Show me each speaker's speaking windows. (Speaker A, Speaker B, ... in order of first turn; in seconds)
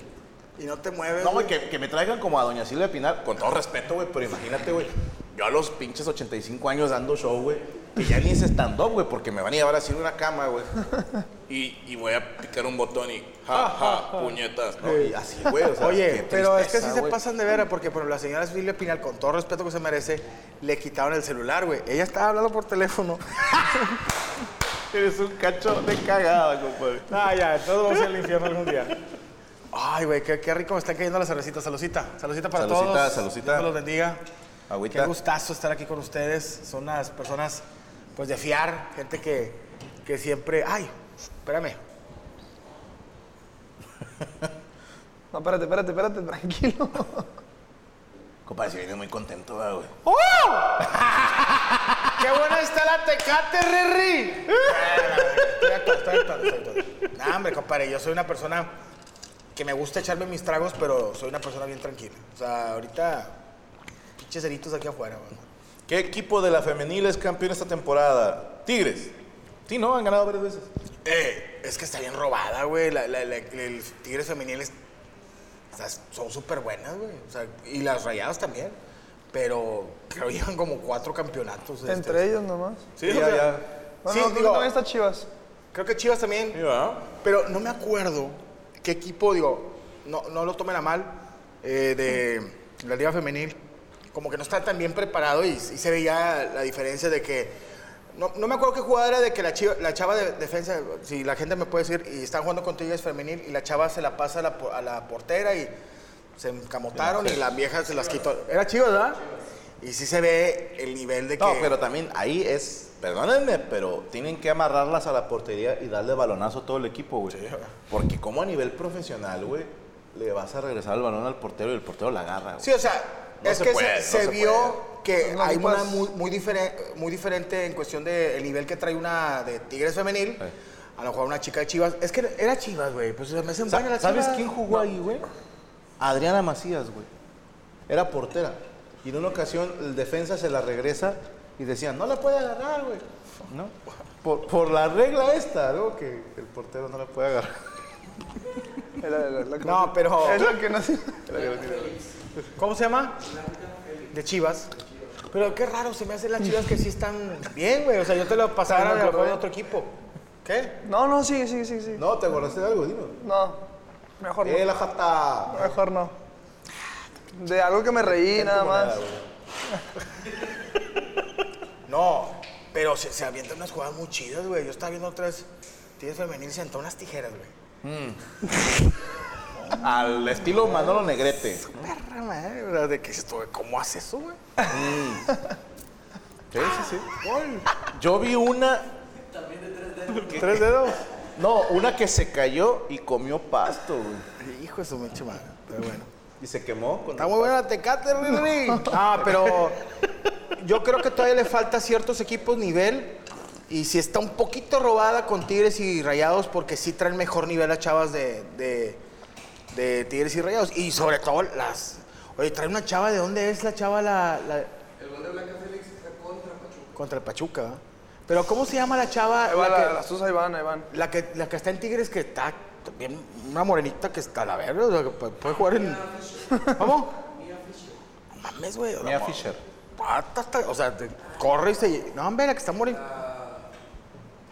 Speaker A: 0.6-1.5, 13.5-24.0, 27.1-28.9, 29.7-34.2, 34.9-37.6, 38.1-41.8, 50.2-50.7, 52.2-58.7, 59.5-63.3, 64.2-65.5, 71.0-74.7, 75.7-78.8, 79.3-82.3, 83.0-84.7, 85.7-86.6, 87.2-93.5, 94.1-97.5, 98.1-105.7, 106.4-109.2, 109.8-111.7, 117.3-117.7, 122.6-134.8, 149.6-150.6, 152.6-153.2, 154.1-154.7, 155.3-160.8, 171.9-177.5, 180.7-181.0, 181.7-184.4, 187.2-187.8, 190.3-191.0, 194.4-196.1, 197.2-199.8, 200.6-209.0, 209.7-214.7, 216.9-220.0, 220.9-227.2, 228.3-229.4, 230.0-233.2
Speaker B: 1.2-10.7, 11.5-17.2, 24.9-27.2, 32.5-33.7, 34.7-35.1, 48.5-50.1, 50.8-52.1, 54.5-55.6, 65.9-69.1, 69.7-70.7, 83.0-83.7, 86.5-87.0, 107.0-107.4, 111.4-122.7, 123.4-124.8, 133.7-135.3, 136.0-137.1, 137.9-147.7, 151.3-152.0, 161.9-163.2, 164.4-165.7, 168.1-169.2, 177.8-178.2, 179.7-181.9, 184.7-185.3, 186.5-187.2, 187.8-188.9, 189.9-190.7, 191.3-194.2, 196.4-197.6, 229.0-229.6
Speaker C: 45.3-47.3, 81.9-82.8, 84.0-85.3, 125.2-126.1, 149.0-151.3, 158.7-159.4, 160.8-162.0, 163.2-163.6, 164.2-164.6, 165.5-166.1, 167.3-169.0, 219.5-220.9